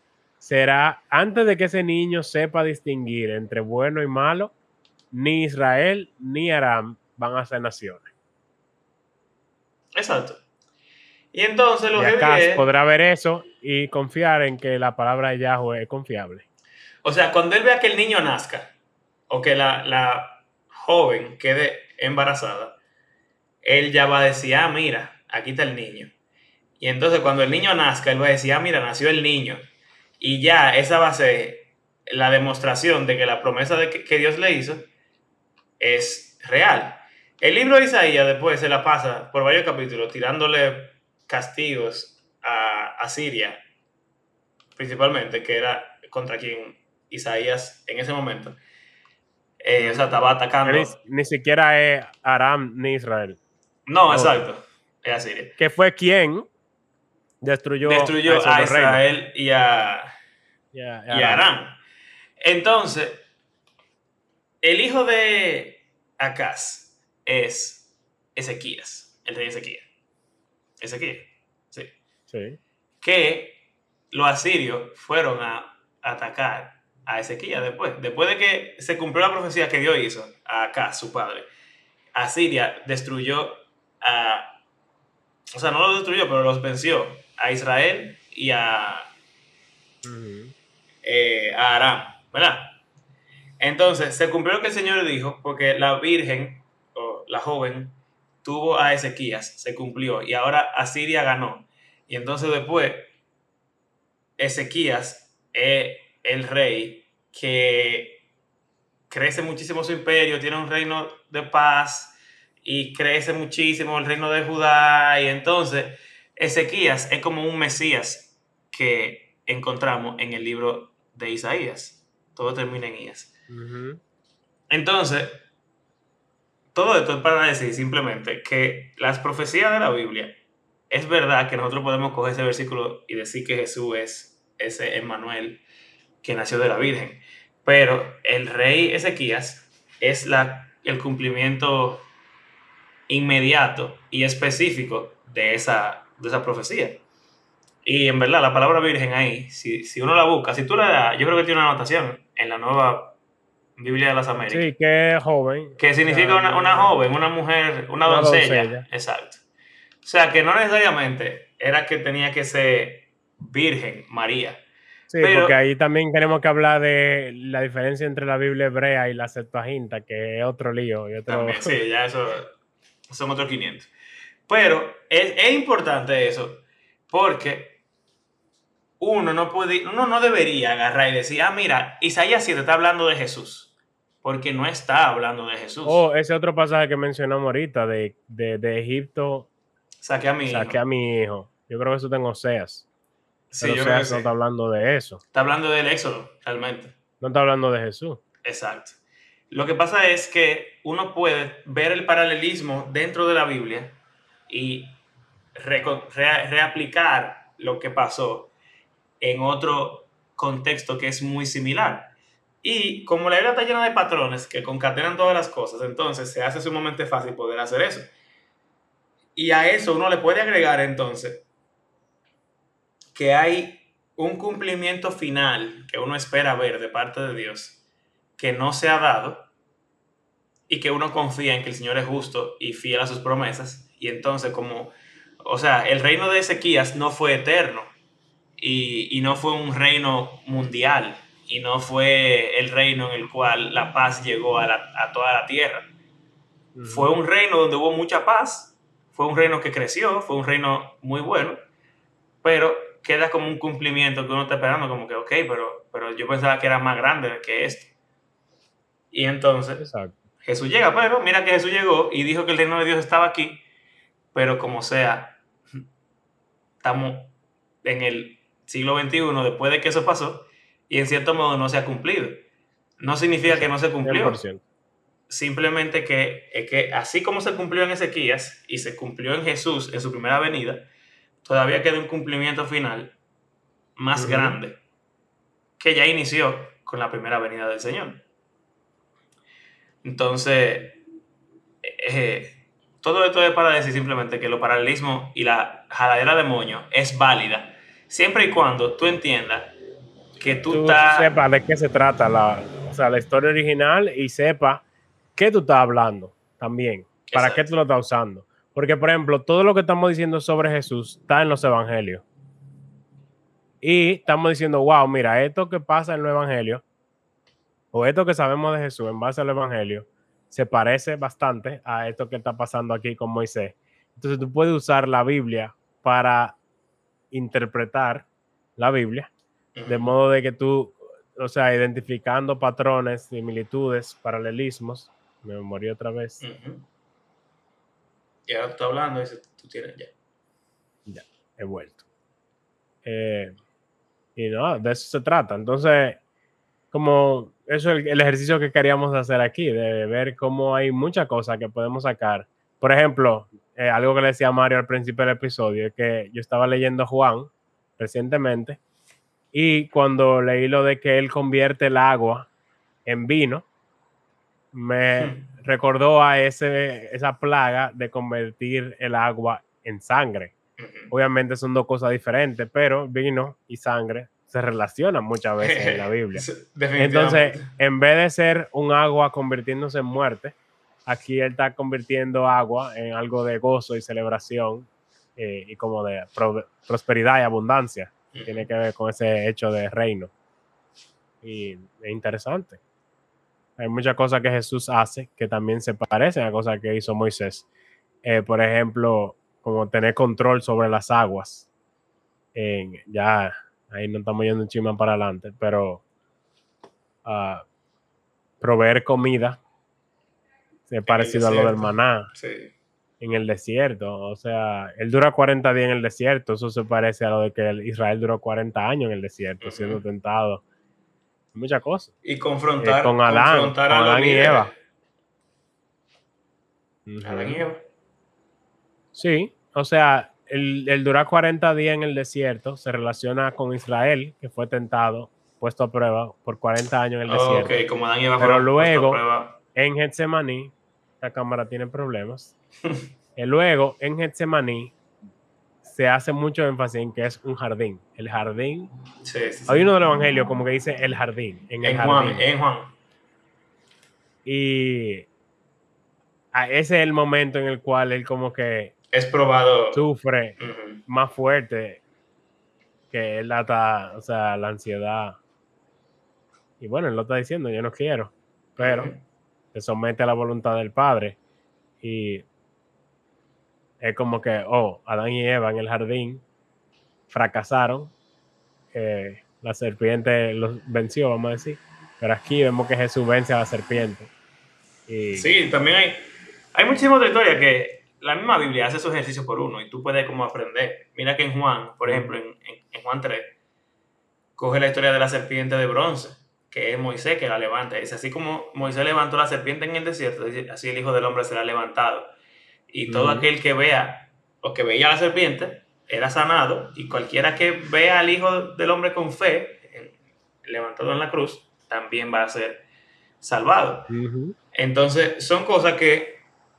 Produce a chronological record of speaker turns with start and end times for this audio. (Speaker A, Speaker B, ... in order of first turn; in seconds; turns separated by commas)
Speaker A: 0.4-4.5, Speaker A: 5.1-8.1, Speaker B: 9.9-10.4, Speaker B: 11.3-12.6, Speaker A: 11.9-16.4, Speaker B: 17.0-18.7, Speaker B: 19.3-22.8, Speaker B: 23.6-26.1, Speaker B: 26.8-29.6, Speaker B: 30.2-34.9, Speaker B: 35.8-43.6, Speaker B: 44.8-48.6, Speaker B: 49.6-51.0, Speaker A: 49.8-50.0, Speaker A: 50.6-53.4, Speaker B: 53.9-55.5, Speaker A: 54.1-54.4, Speaker A: 55.6-56.5, Speaker A: 57.4-59.0, Speaker B: 57.8-60.1, Speaker A: 60.7-61.4, Speaker B: 61.1-61.8, Speaker B: 62.4-63.2, Speaker B: 64.6-69.8, Speaker B: 70.8-71.9, Speaker A: 72.3-72.6, Speaker B: 73.0-73.6, Speaker B: 74.1-81.5, Speaker B: 82.1-84.6, Speaker B: 85.5-89.1, Speaker A: 90.0-90.5, Speaker B: 91.0-92.8, Speaker B: 93.6-103.1, Speaker B: 104.4-108.2, Speaker B: 109.1-123.3, Speaker A: 123.5-124.0, Speaker B: 124.7-125.4, Speaker B: 126.7-130.3, Speaker B: 130.9-135.6, Speaker B: 136.2-142.1, Speaker B: 143.1-147.0, Speaker B: 147.8-153.2, Speaker B: 153.8-154.7, Speaker A: 154.5-157.1, Speaker B: 155.8-159.4, Speaker A: 158.1-158.8, Speaker B: 160.0-164.6, Speaker A: 165.1-171.8, Speaker B: 165.2-165.6, Speaker B: 171.3-172.5, Speaker B: 173.1-173.9, Speaker B: 174.5-177.8, Speaker B: 179.0-186.0, Speaker A: 185.8-189.5, Speaker B: 190.0-190.8, Speaker A: 190.5-192.8, Speaker B: 193.5-194.3, Speaker A: 193.6-195.2, Speaker B: 195.3-196.9, Speaker A: 197.2-198.2, Speaker B: 198.4-199.0, Speaker B: 199.5-205.0, Speaker B: 205.6-208.5, Speaker B: 209.2-212.1, Speaker B: 212.6-218.1, Speaker B: 219.3-221.4, Speaker B: 223.1-227.8, Speaker B: 228.4-229.5, Speaker B: 230.7-237.9, Speaker B: 238.6-245.9, Speaker A: 246.7-247.1, Speaker B: 246.8-251.6, Speaker B: 252.4-257.9, Speaker B: 259.1-259.9, Speaker A: 259.8-260.1, Speaker B: 260.4-263.6, Speaker B: 264.3-265.4, Speaker B: 266.8-272.4, Speaker B: 273.0-274.4, Speaker A: 273.5-274.6, Speaker B: 275.3-280.9, Speaker B: 281.4-283.1, Speaker B: 284.0-284.8, Speaker A: 284.1-284.6, Speaker B: 285.8-288.2, Speaker B: 290.0-291.0, Speaker B: 291.8-299.7, Speaker B: 300.4-301.3, Speaker A: 300.7-304.8, Speaker A: 305.3-312.2, Speaker B: 307.3-307.6, Speaker A: 313.8-316.8, Speaker A: 317.9-326.6, Speaker A: 327.3-329.3, Speaker B: 329.7-330.1, Speaker A: 329.9-336.4, Speaker B: 336.4-336.9, Speaker B: 338.5-340.1, Speaker A: 341.1-342.0, Speaker A: 343.0-343.6, Speaker A: 344.4-346.2, Speaker A: 346.9-358.8, Speaker A: 359.5-362.5, Speaker A: 363.1-363.6, Speaker A: 364.7-370.5, Speaker B: 365.2-365.5, Speaker B: 370.8-371.1, Speaker A: 371.1-390.3, Speaker B: 375.6-377.7, Speaker B: 388.3-388.7, Speaker A: 391.4-392.8, Speaker A: 393.8-397.7, Speaker A: 398.2-401.7, Speaker A: 402.5-406.0, Speaker A: 407.2-407.6, Speaker A: 408.6-409.6, Speaker A: 410.9-412.3, Speaker B: 411.1-412.7, Speaker A: 413.2-420.6, Speaker B: 419.6-420.0, Speaker A: 421.5-422.1, Speaker B: 422.2-424.7, Speaker A: 422.8-424.7, Speaker A: 427.1-427.6, Speaker B: 427.2-427.8, Speaker A: 429.1-437.7, Speaker B: 437.3-439.6, Speaker A: 438.4-439.2, Speaker A: 439.7-442.5, Speaker A: 443.4-444.9, Speaker A: 445.8-448.9, Speaker B: 449.2-449.9, Speaker A: 449.7-452.4, Speaker B: 451.8-452.9, Speaker A: 454.4-455.3, Speaker A: 456.5-458.9, Speaker B: 459.1-460.1, Speaker A: 459.9-460.6, Speaker B: 460.6-461.0, Speaker A: 461.1-462.0, Speaker A: 463.1-465.4, Speaker A: 466.8-469.1, Speaker B: 468.8-469.2, Speaker A: 469.7-471.4, Speaker A: 472.0-472.4, Speaker A: 474.0-476.4, Speaker A: 477.3-478.1, Speaker A: 478.9-484.3, Speaker A: 485.1-485.5, Speaker B: 485.3-493.5, Speaker A: 492.0-492.3, Speaker B: 494.6-502.3, Speaker B: 502.9-512.8, Speaker A: 503.1-503.5, Speaker B: 513.4-514.1, Speaker A: 514.1-514.5, Speaker B: 514.7-516.4